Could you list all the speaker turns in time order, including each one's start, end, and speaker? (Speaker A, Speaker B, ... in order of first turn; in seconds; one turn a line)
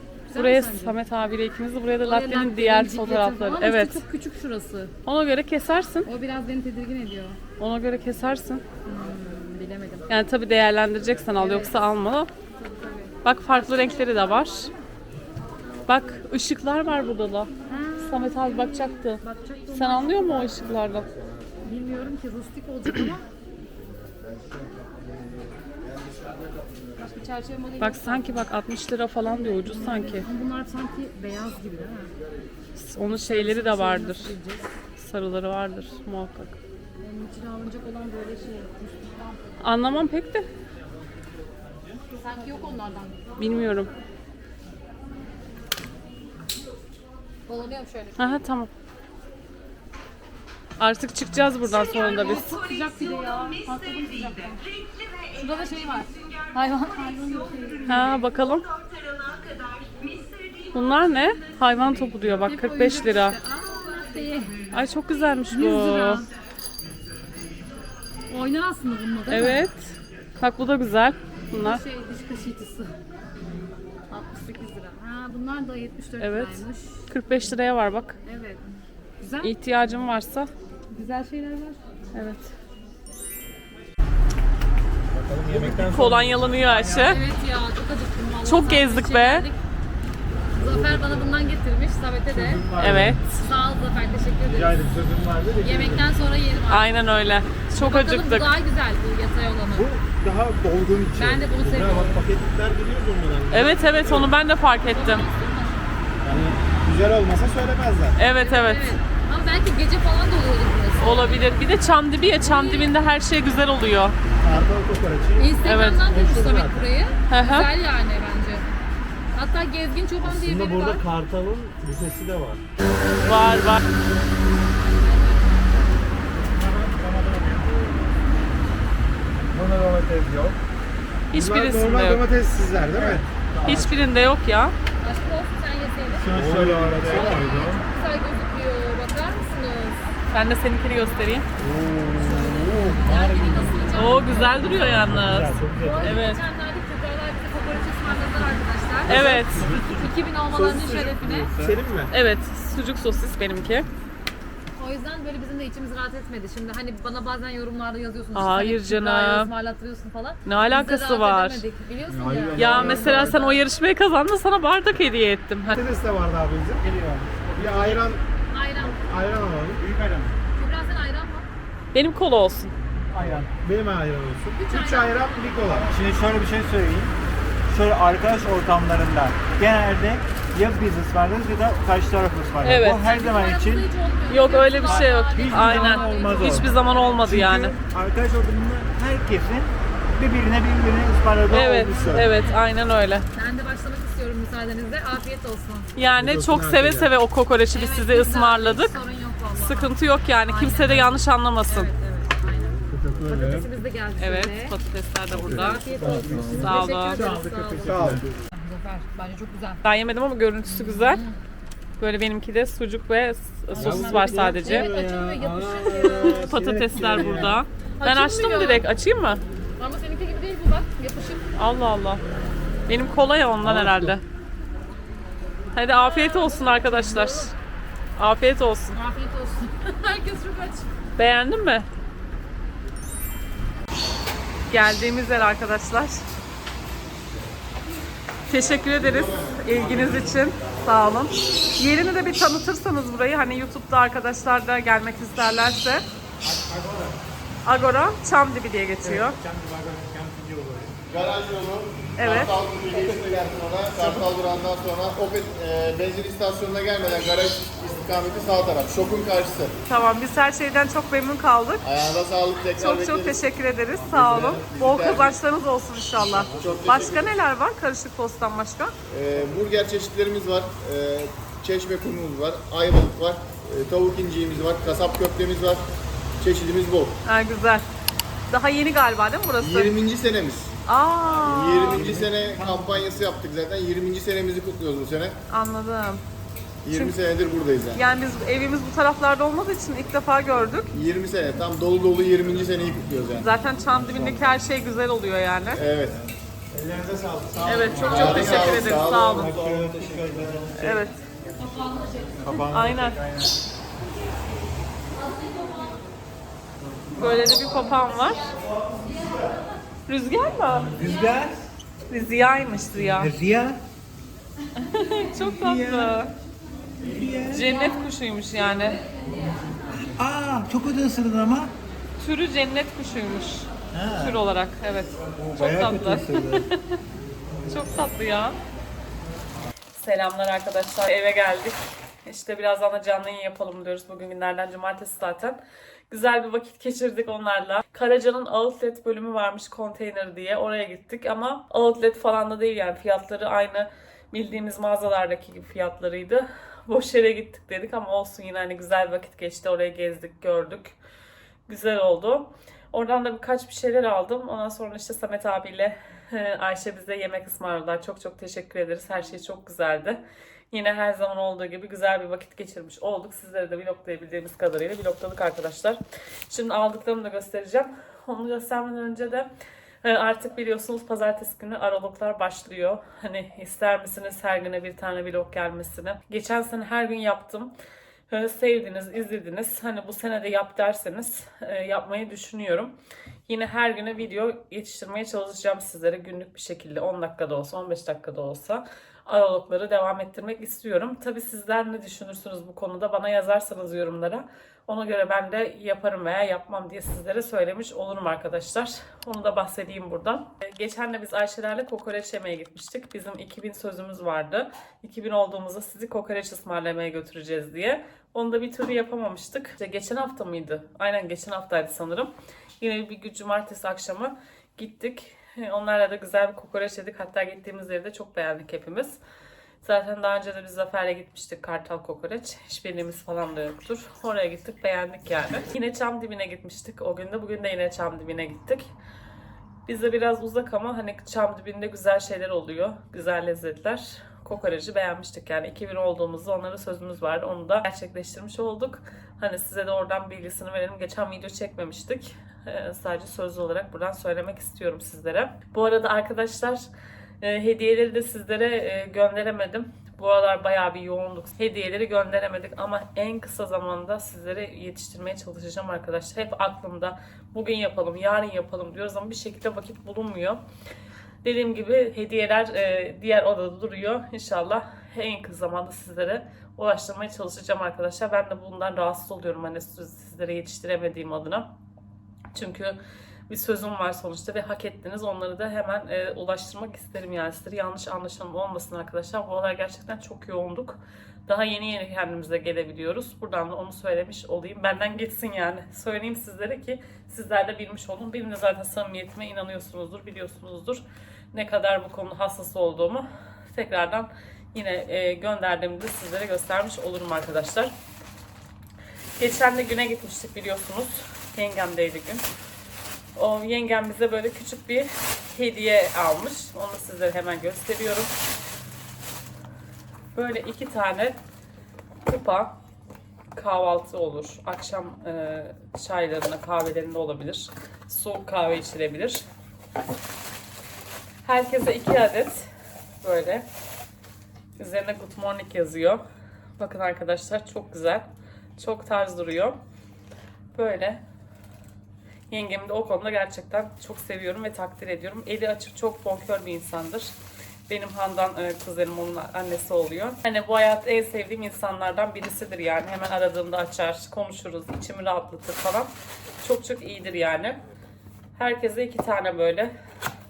Speaker A: 0.3-1.0
Speaker B: 0.3-4.0
Speaker A: 2.0-4.9
Speaker B: 5.1-6.1
Speaker A: 6.1-7.4
Speaker B: 7.6-8.6
Speaker A: 8.8-10.1
Speaker B: 10.1-12.3
Speaker A: 11.4-11.8
Speaker A: 12.6-14.8
Speaker B: 13.2-14.7
Speaker B: 15.9-17.5
Speaker A: 17.7-20.7
Speaker B: 18.0-19.2
Speaker B: 19.7-21.1
Speaker A: 21.6-23.2
Speaker A: 27.0-28.4
Speaker B: 27.8-30.3
Speaker A: 29.3-32.1
Speaker B: 32.8-34.3
Speaker A: 33.1-34.7
Speaker B: 35.0-36.6
Speaker A: 37.0-39.6
Speaker B: 39.6-40.5
Speaker A: 42.1-43.5
Speaker B: 43.4-43.9
Speaker A: 47.5-48.4
Speaker B: 48.2-48.7
Speaker B: 50.8-52.6
Speaker A: 51.7-58.1
Speaker B: 57.9-58.7
Speaker B: 60.7-63.4
Speaker A: 62.3-64.7
Speaker B: 64.7-66.3
Speaker A: 65.5-66.3
Speaker A: 68.3-69.6
Speaker B: 69.3-71.8
Speaker A: 71.5-72.9
Speaker A: 74.1-77.1
Speaker B: 76.2-78.2
Speaker A: 78.2-78.6
Speaker A: 79.2-79.5
Speaker B: 79.4-80.5
Speaker A: 80.9-81.8
Speaker B: 82.1-82.5
Speaker C: 85.1-87.2
Speaker D: 85.5-86.0
Speaker B: 85.8-87.2
Speaker A: 87.0-89.6
Speaker B: 88.5-89.5
Speaker A: 90.6-92.7
Speaker C: 90.6-91.4
Speaker C: 92.3-93.2
Speaker B: 92.8-93.3
Speaker A: 93.4-94.9
Speaker C: 94.5-96.1
Speaker A: 95.6-96.9
Speaker B: 96.7-98.5
Speaker A: 97.8-99.9
Speaker C: 99.7-104.3
Speaker A: 101.2-102.2
Speaker B: 103.5-105.3
Speaker A: 104.9-105.9
Speaker C: 106.2-108.2
Speaker B: 108.2-109.0
Speaker A: 108.3-111.7
Speaker B: 111.0-114.2
Speaker A: 112.4-113.0
Speaker C: 114.4-116.9
Speaker A: 115.4-118.7
Speaker B: 115.6-116.1
Speaker B: 117.3-117.7
Speaker A: 119.3-121.0
Speaker C: 120.2-122.6
Speaker B: 123.2-123.8
Speaker A: 124.9-125.6
Speaker C: 126.3-127.9
Speaker C: 129.5-130.6
Speaker B: 131.3-132.2
Speaker C: 131.3-133.9
Speaker D: 132.9-133.2
Speaker B: 133.6-134.8
Speaker A: 135.0-136.3
Speaker D: 136.2-137.7
Speaker C: 136.2-137.8
Speaker A: 137.1-140.1
Speaker B: 140.3-141.5
Speaker C: 141.6-144.0
Speaker A: 142.2-145.1
Speaker B: 143.9-146.4
Speaker C: 144.7-146.2
Speaker A: 145.8-151.5
Speaker B: 149.1-149.7
Speaker C: 149.1-152.1
Speaker B: 152.1-153.9
Speaker A: 154.8-163.6
Speaker B: 158.3-159.5
Speaker B: 160.4-161.6
Speaker D: 162.1-163.3
Speaker C: 162.2-163.4
Speaker B: 162.6-165.8
Speaker C: 165.7-166.9
Speaker D: 166.8-168.0
Speaker C: 167.6-168.2
Speaker A: 168.5-169.1
Speaker C: 168.8-169.8
Speaker D: 169.8-170.3
Speaker A: 170.6-171.5
Speaker B: 171.9-172.7
Speaker D: 173.1-173.5
Speaker C: 173.2-175.9
Speaker A: 174.6-175.5
Speaker D: 175.6-177.1
Speaker D: 177.7-183.9
Speaker B: 182.6-183.1
Speaker A: 182.9-187.1
Speaker B: 184.3-187.8
Speaker D: 184.8-192.3
Speaker B: 191.5-193.3
Speaker A: 192.1-192.6
Speaker A: 193.3-195.9
Speaker B: 195.9-199.0
Speaker C: 196.1-197.1
Speaker A: 197.7-204.7
Speaker B: 199.6-201.9
Speaker C: 202.7-203.7
Speaker B: 204.2-207.2
Speaker A: 205.5-207.9
Speaker C: 205.5-208.3
Speaker D: 206.0-206.8
Speaker D: 207.9-208.2
Speaker A: 208.5-209.8
Speaker B: 209.8-211.2
Speaker A: 210.7-211.4
Speaker B: 212.0-214.9
Speaker A: 213.7-216.5
Speaker C: 213.8-217.6
Speaker D: 213.8-214.2
Speaker D: 214.9-216.1
Speaker B: 215.9-219.4
Speaker A: 218.0-218.8
Speaker A: 219.8-221.4
Speaker B: 221.6-222.2
Speaker B: 222.9-224.2
Speaker D: 223.6-224.2
Speaker B: 225.8-227.5
Speaker A: 225.9-227.5
Speaker B: 228.2-229.0
Speaker A: 228.9-230.9
Speaker B: 231.2-231.9
Speaker B: 234.7-236.2
Speaker B: 238.5-246.0
Speaker E: 238.5-240.9
Speaker C: 246.4-247.2
Speaker B: 247.7-249.4
Speaker C: 249.0-250.9
Speaker E: 251.1-259.8
Speaker B: 252.2-252.5
Speaker D: 252.9-253.4
Speaker C: 253.1-253.5
Speaker B: 259.9-261.9
Speaker E: 261.8-263.4
Speaker B: 262.8-268.9
Speaker E: 264.1-265.4
Speaker E: 266.5-267.3
Speaker E: 269.1-275.9
Speaker E: 276.4-277.2
Speaker B: 277.2-277.9
Speaker B: 278.5-279.9
Speaker E: 279.6-280.7
Speaker B: 280.9-282.2
Speaker E: 281.4-285.4
Speaker D: 281.6-282.9
Speaker B: 285.5-286.2
Speaker E: 286.8-288.0
Speaker B: 287.9-290.9
Speaker E: 290.9-293.5
Speaker B: 293.4-295.8
Speaker E: 295.7-296.2
Speaker C: 296.7-298.3
Speaker D: 297.6-301.1
Speaker B: 297.7-299.5
Speaker E: 297.9-299.7
Speaker C: 299.5-300.6
Speaker B: 300.8-301.5
Speaker A: 301.6-302.6
Speaker D: 302.4-303.5
Speaker B: 302.7-303.2
Speaker A: 305.2-306.0
Speaker B: 307.2-308.5
Speaker B: 310.1-310.9
Speaker D: 310.9-311.6
Speaker B: 312.1-313.3
Speaker D: 313.1-313.8
Speaker B: 314.8-316.3
Speaker D: 315.4-316.2
Speaker D: 317.0-317.7
Speaker B: 317.5-319.0
Speaker D: 320.0-321.7
Speaker B: 322.2-326.4
Speaker D: 323.9-324.4
Speaker D: 325.4-326.7
Speaker B: 327.7-328.6
Speaker B: 330.0-335.6
Speaker B: 336.1-350.9
Speaker B: 351.7-360.2
Speaker B: 360.7-369.5
Speaker B: 370.0-377.7
Speaker B: 378.3-382.9
Speaker B: 383.5-419.2
Speaker B: 419.8-428.9
Speaker B: 429.9-446.9
Speaker B: 447.4-460.6
Speaker B: 461.4-471.7
Speaker B: 472.5-473.0
Speaker B: 473.5-491.0
Speaker B: 491.5-497.9
Speaker B: 499.4-502.4
Speaker B: 503.4-508.3
Speaker B: 510.4-511.4
Speaker B: 512.3-512.8
Speaker B: 513.5-519.5
Speaker B: 521.4-522.7
Speaker B: 523.2-523.7
Speaker B: 524.8-526.2
Speaker B: 526.8-528.3
Speaker B: 528.8-529.8
Speaker B: 530.7-531.2
Speaker B: 532.5-537.3
Speaker B: 537.9-546.1
Speaker B: 546.6-547.8
Speaker B: 548.6-549.9